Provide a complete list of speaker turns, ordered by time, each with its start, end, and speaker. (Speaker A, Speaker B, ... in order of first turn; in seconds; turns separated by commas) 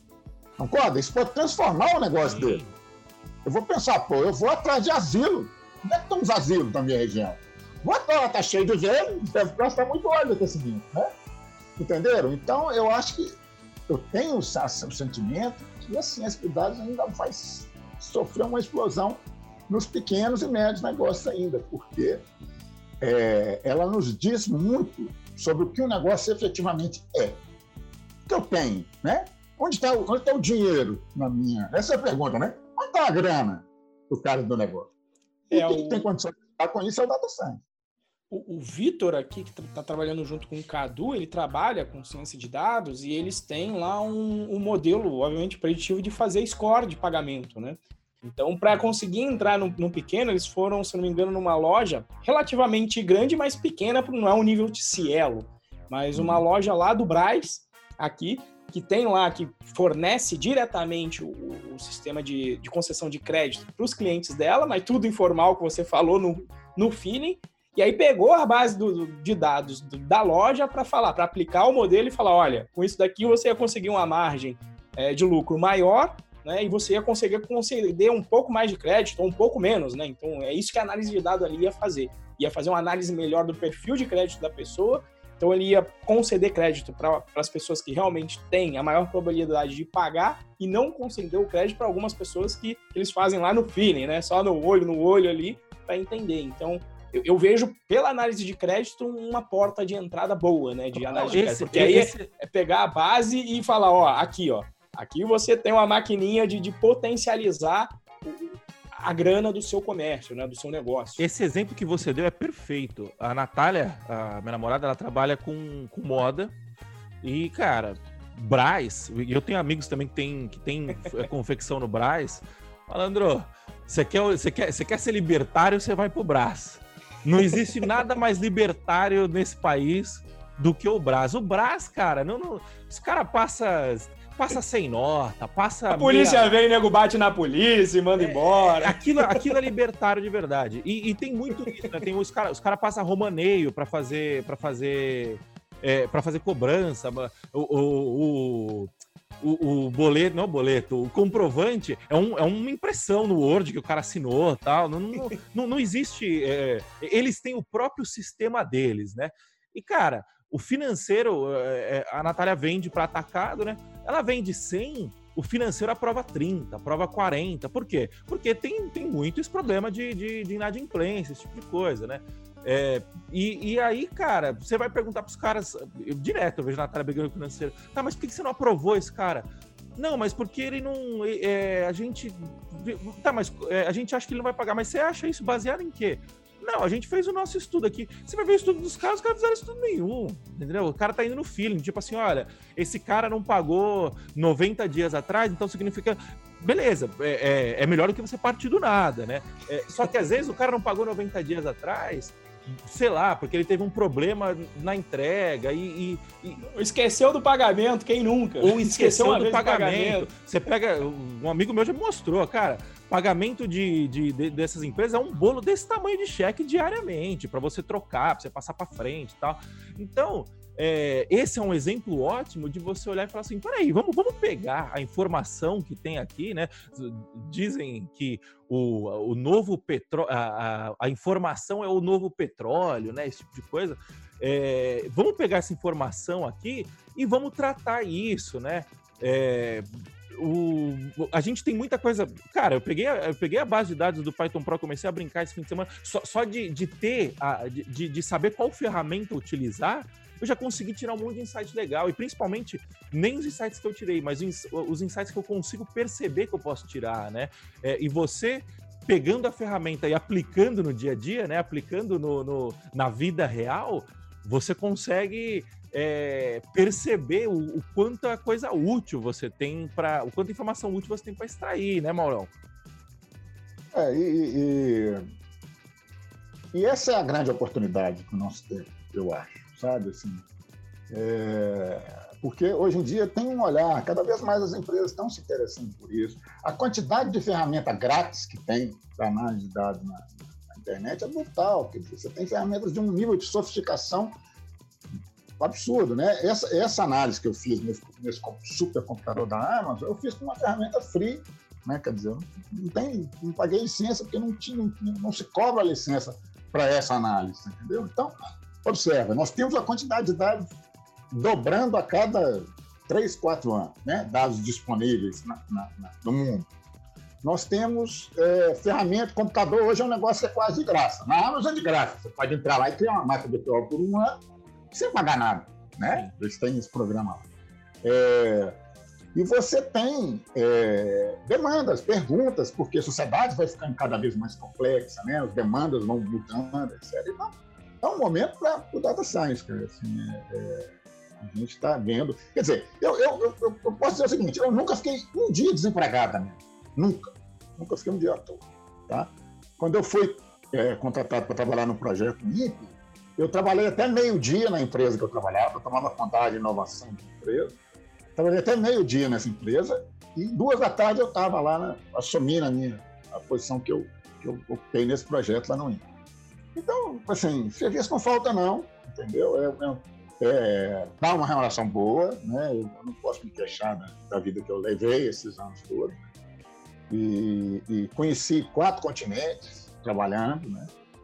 Speaker A: 0.6-2.6, Speaker B: 2.2-2.7, Speaker A: 3.4-11.1, Speaker A: 11.8-13.3, Speaker A: 13.9-22.2, Speaker A: 23.0-27.4, Speaker A: 28.3-34.9, Speaker C: 35.5-36.1, Speaker A: 35.5-37.6, Speaker C: 38.3-111.2, Speaker A: 56.1-56.4, Speaker B: 101.0-102.3, Speaker B: 111.2-116.5, Speaker B: 117.2-136.5, Speaker C: 135.9-139.5, Speaker B: 138.2-206.6, Speaker C: 141.6-141.9, Speaker C: 206.6-210.3, Speaker B: 208.6-272.5, Speaker A: 273.9-275.2, Speaker A: 276.7-280.4, Speaker A: 281.1-294.3, Speaker A: 295.6-310.7, Speaker A: 311.3-316.7, Speaker A: 317.4-324.4, Speaker A: 324.9-327.4, Speaker B: 326.0-326.3, Speaker A: 328.0-328.8, Speaker A: 329.3-357.7, Speaker A: 358.4-366.0, Speaker A: 366.7-376.2, Speaker A: 377.1-380.9